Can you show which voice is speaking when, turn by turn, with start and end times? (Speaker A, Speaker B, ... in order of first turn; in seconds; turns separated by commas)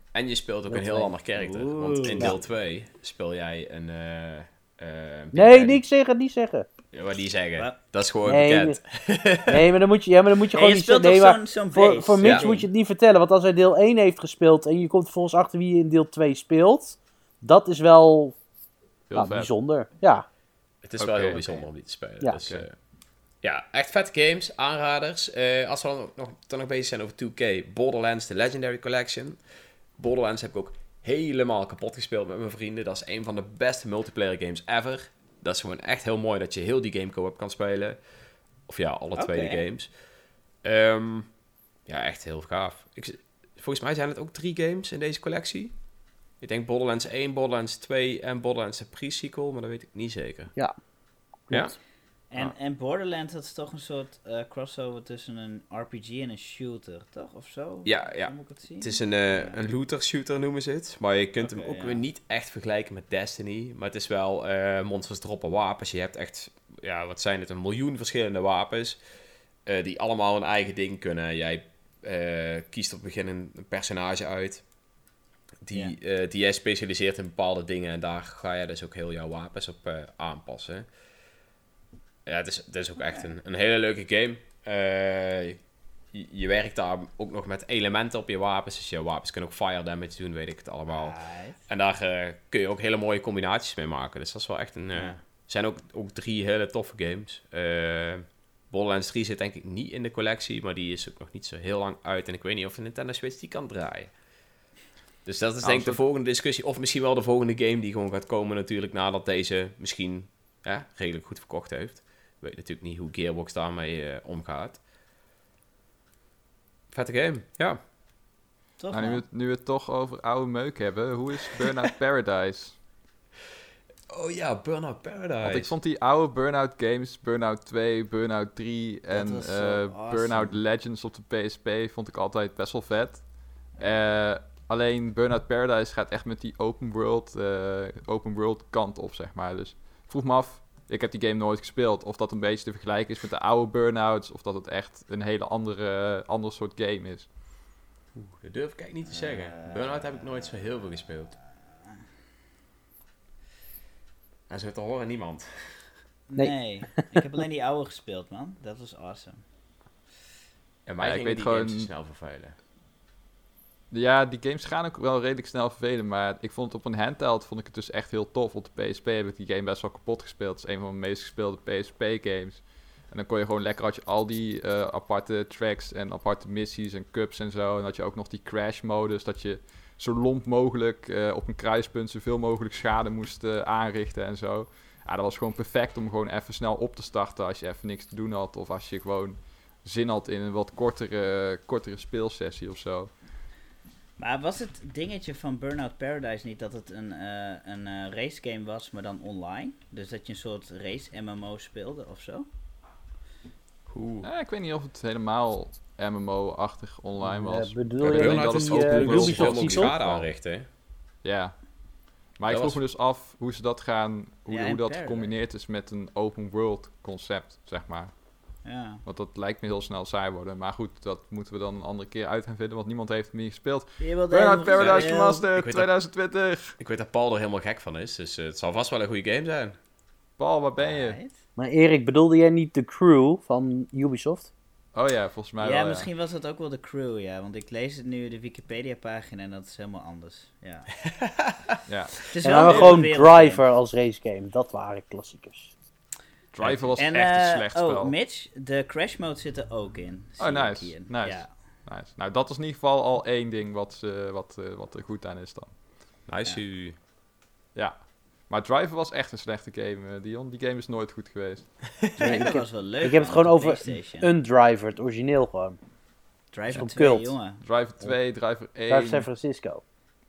Speaker A: 0.1-5.8, Speaker B: 0.7-1.1, Speaker C: 1.4-2.4, Speaker B: 5.3-6.7, Speaker A: 6.9-9.7, Speaker B: 8.2-8.8, Speaker B: 9.4-18.4, Speaker C: 10.5-12.7, Speaker D: 19.1-19.5, Speaker B: 19.1-20.2, Speaker A: 20.8-22.8, Speaker D: 21.0-21.6, Speaker A: 23.4-29.4, Speaker A: 29.9-40.0, Speaker C: 39.1-39.6, Speaker A: 40.6-45.8, Speaker A: 46.4-50.5, Speaker B: 51.4-51.7, Speaker A: 51.5-51.8, Speaker C: 52.3-59.6, Speaker A: 57.8-74.7, Speaker C: 61.4-62.0, Speaker A: 75.6-80.9, Speaker C: 75.7-76.0, Speaker A: 82.2-104.1, Speaker C: 83.0-83.3, Speaker C: 90.9-91.6, Speaker C: 94.9-95.2, Speaker A: 105.2-114.8, Speaker D: 105.6-106.0, Speaker A: 116.9-117.8, Speaker C: 118.8-119.2, Speaker D: 118.9-122.8, Speaker A: 124.1-125.7, Speaker D: 125.4-147.3, Speaker C: 129.1-130.6, Speaker A: 148.1-151.3, Speaker C: 149.1-150.5, Speaker A: 154.5-156.0, Speaker C: 156.3-159.4, Speaker B: 156.3-157.2, Speaker A: 160.8-162.6, Speaker D: 161.0-161.9, Speaker D: 163.9-193.1, Speaker C: 194.2-202.4, Speaker A: 203.9-204.3, Speaker D: 204.2-210.3, Speaker B: 207.2-209.9, Speaker A: 208.0-210.7, Speaker D: 211.2-226.8, Speaker A: 212.5-212.8, Speaker C: 214.5-215.3, Speaker C: 218.6-219.0, Speaker C: 224.0-225.4, Speaker A: 224.7-226.1, Speaker A: 226.8-229.8, Speaker D: 230.4-231.2, Speaker C: 230.8-231.3, Speaker B: 231.6-234.5, Speaker D: 234.9-236.1, Speaker C: 235.6-241.1, Speaker A: 241.1-241.5, Speaker D: 241.9-243.1, Speaker C: 242.3-243.7, Speaker B: 242.4-245.7, Speaker D: 246.5-248.1, Speaker A: 246.6-246.9, Speaker C: 247.0-251.6, Speaker D: 250.4-255.8, Speaker A: 256.2-257.0, Speaker D: 257.7-261.9, Speaker C: 262.1-264.3, Speaker B: 262.2-265.8, Speaker C: 266.5-267.6, Speaker B: 266.7-267.4, Speaker D: 267.6-269.3, Speaker B: 268.9-269.8